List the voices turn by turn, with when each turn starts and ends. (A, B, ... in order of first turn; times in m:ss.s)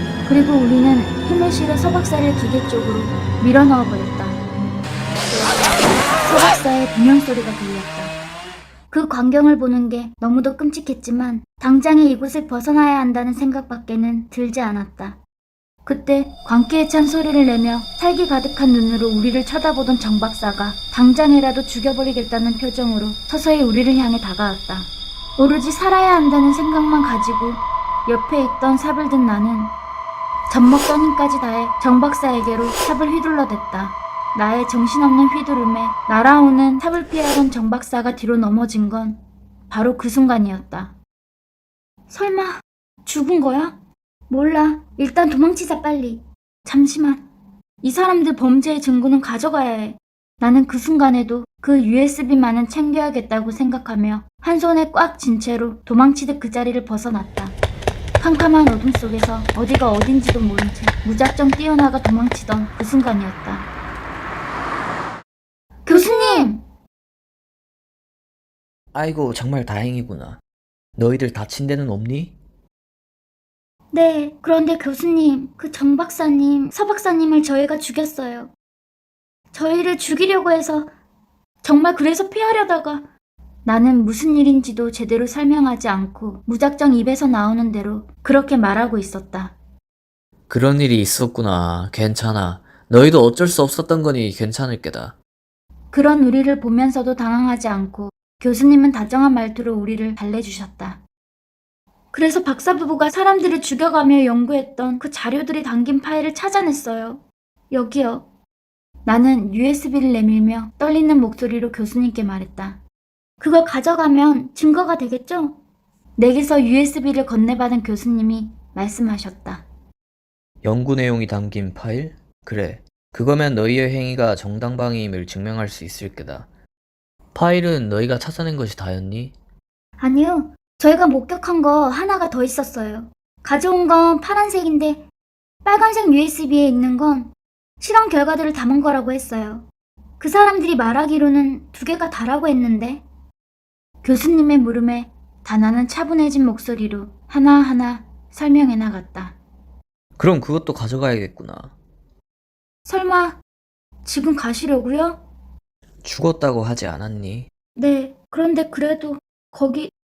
0:00.2-0:04.4 A
0:06.0-0:08.1 A
0:08.9-0:15.2 A
0:15.8-0:29.7 A
0:30.5-0:40.9 A
0:42.1-0:43.8 A
0:44.3-0:47.2 A
0:47.8-0:57.6 A
0:58.2-1:03.7 A
1:05.9-1:06.6 A
1:08.9-1:10.4 B
1:11.0-1:12.4 B
1:13.9-1:18.5 A
1:19.5-1:20.9 A
1:21.6-1:23.1 A
1:23.6-1:29.5 A
1:30.5-1:35.2 B
1:35.9-1:41.0 A
1:42.1-1:48.3 A
1:49.0-1:52.8 A
1:53.4-1:55.6 A
1:56.2-1:59.6 A
2:00.6-2:06.5 B
2:07.3-2:09.4 B
2:10.0-2:15.0 A
2:15.6-2:19.7 A
2:20.2-2:23.0 A
2:24.0-2:29.4 A
2:30.2-2:31.7 B
2:32.8-2:33.4 A
2:34.0-2:35.2 A
2:36.0-2:37.5 B
2:37.8-2:39.9 A